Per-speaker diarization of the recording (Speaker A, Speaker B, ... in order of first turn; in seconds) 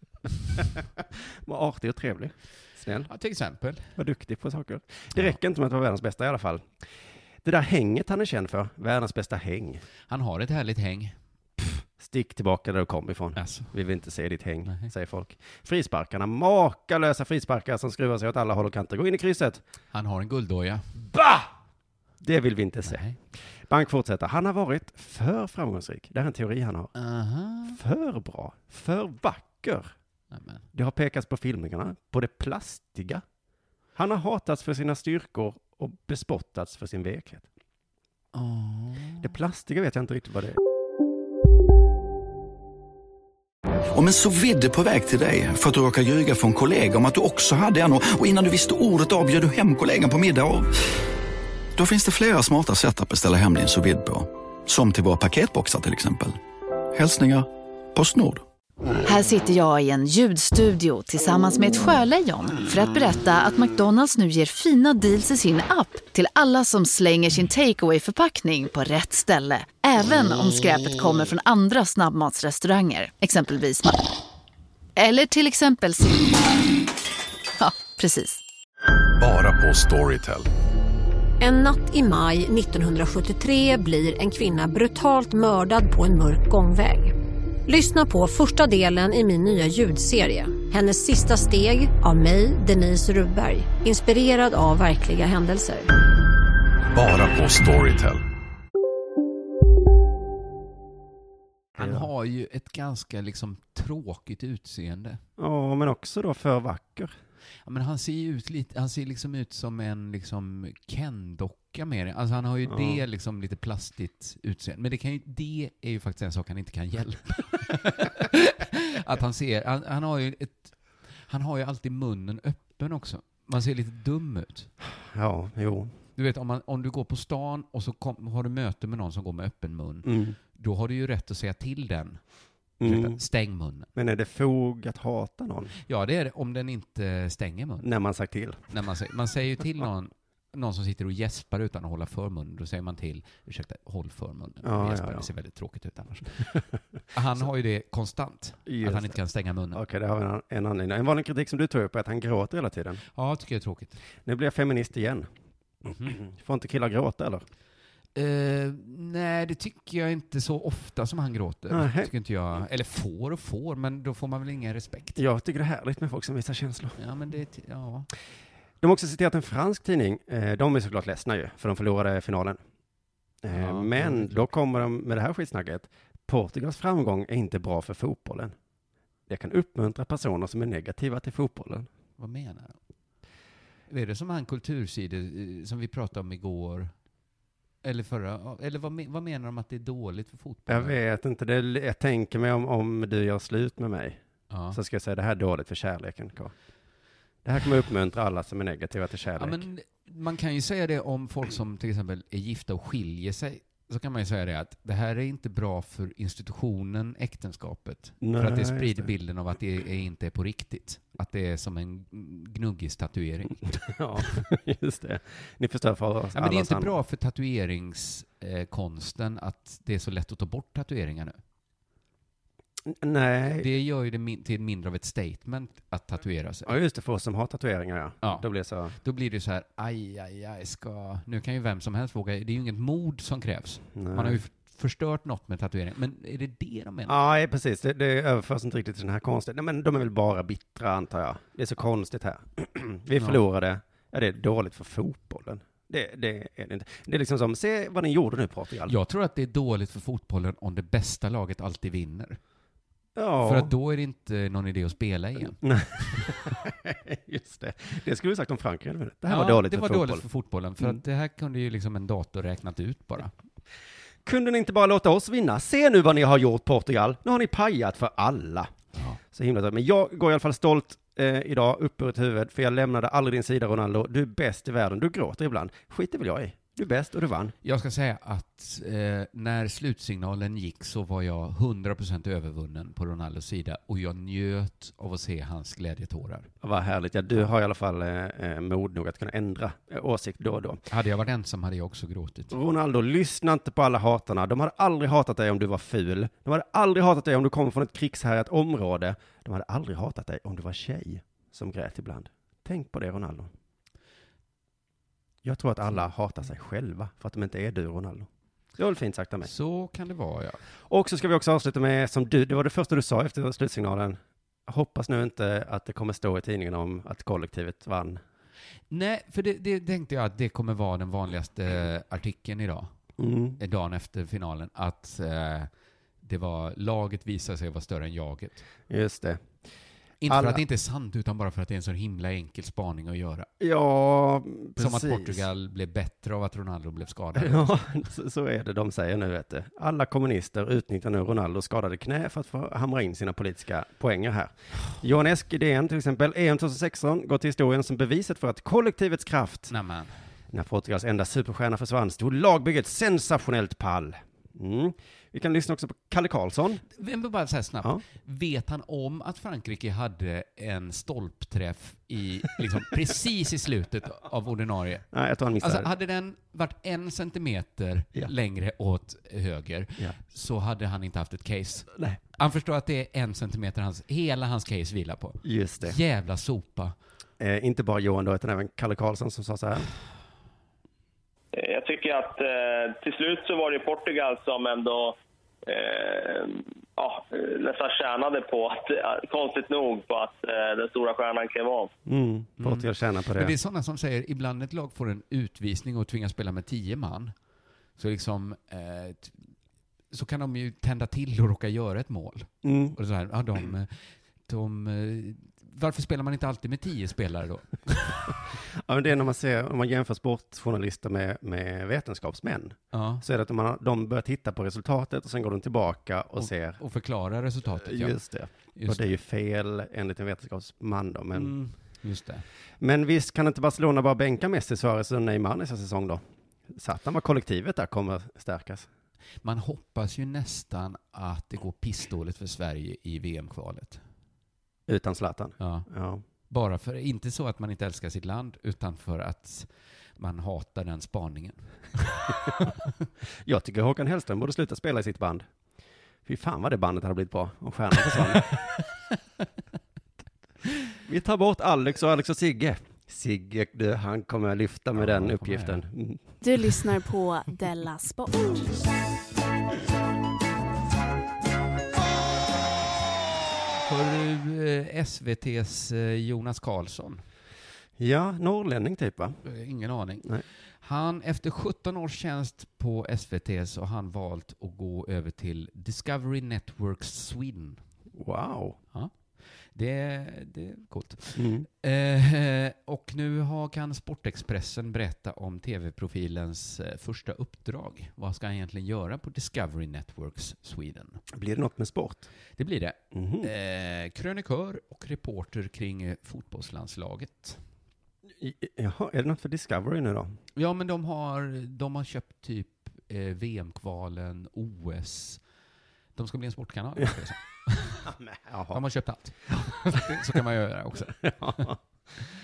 Speaker A: 0.6-3.1, 4.0-6.8, 7.4-9.8, 12.0-19.6, 22.2-23.0, 23.7-26.9, 27.7-29.9, 30.7-33.2, 34.0-37.5, 39.2-40.6, 101.8-102.1, 105.4-107.1, 112.7-113.0, 124.9-125.9, 130.1-130.4, 132.8-133.2, 133.9-135.7, 137.8-138.6, 144.6-145.3, 148.7-149.2, 149.7-153.0, 154.2-155.3, 155.9-157.4, 161.7-162.1, 165.2-167.0, 168.8-172.6, 173.4-178.6, 179.3-181.9, 190.7-194.2, 194.7-196.5, 197.4-199.6, 208.2-209.1, 213.8-217.0, 222.9-223.7, 226.7-229.0, 233.9-234.4, 237.1-249.0, 253.2-253.7, 255.6-260.2, 264.2-268.7, 269.3-277.6, 286.6-290.8, 292.5-303.5, 305.4-309.5, 310.9-318.2, 323.2-323.6, 328.9-329.5, 330.3-330.6, 333.6-335.4, 337.4-349.7, 350.5-356.8, 365.1-365.9, 375.4-376.0, 377.4-379.9, 392.1-393.5, 402.6-403.0, 408.7-416.8, 417.7-421.6, 422.8-428.9, 434.9-436.2, 443.4-445.5, 446.2-448.5, 451.1-456.2, 468.0-469.4, 478.1-478.8, 481.4-481.7, 491.3-492.3, 493.1-493.5, 498.4-500.4, 508.1-508.8, 511.1-511.8
Speaker B: 3.1-3.9, 10.1-11.2, 13.4-13.7, 14.7-14.9, 19.9-21.1, 22.9-23.2, 26.9-27.8, 30.3-30.7, 38.3-39.3, 101.8-105.2, 107.7-120.7, 121.3-124.7, 126.2-132.2, 132.8-133.9, 135.9-137.9, 138.7-146.5, 147.1-149.8, 153.1-154.0, 155.9-156.2, 158.2-165.2, 167.0-168.1, 173.5-174.5, 182.2-182.8, 183.9-186.9, 187.8-191.0, 194.5-194.8, 199.4-213.8, 216.3-221.4, 223.6-226.7, 229.0-237.2, 248.9-252.4, 253.4-256.3, 259.3-263.3, 268.9-269.2, 277.6-286.5, 290.9-292.6, 309.4-310.6, 318.9-322.9, 323.6-325.7, 326.2-328.6, 330.2-333.5, 334.8-337.8, 349.7-350.2, 357.0-365.1, 365.6-376.9, 392.6-397.3, 398.0-399.4, 400.1-408.4, 412.9-413.2, 416.4-418.2, 418.7-419.1, 421.3-422.4, 429.4-434.0, 435.6-435.9, 436.5-442.7, 454.9-455.8, 463.8-467.2, 469.4-477.8, 479.7-491.2, 492.6-497.6, 500.6-505.4, 506.2-508.1, 508.7-511.7
Speaker C: 43.9-50.7, 51.8-56.4, 56.9-58.4
Speaker D: 59.0-74.0, 75.0-76.5, 77.6-78.4
Speaker E: 79.2-80.5, 96.9-98.2
Speaker F: 81.4-87.1, 87.7-95.9
Speaker G: 381.6-385.2, 385.7-391.9
Speaker H: 456.4-458.8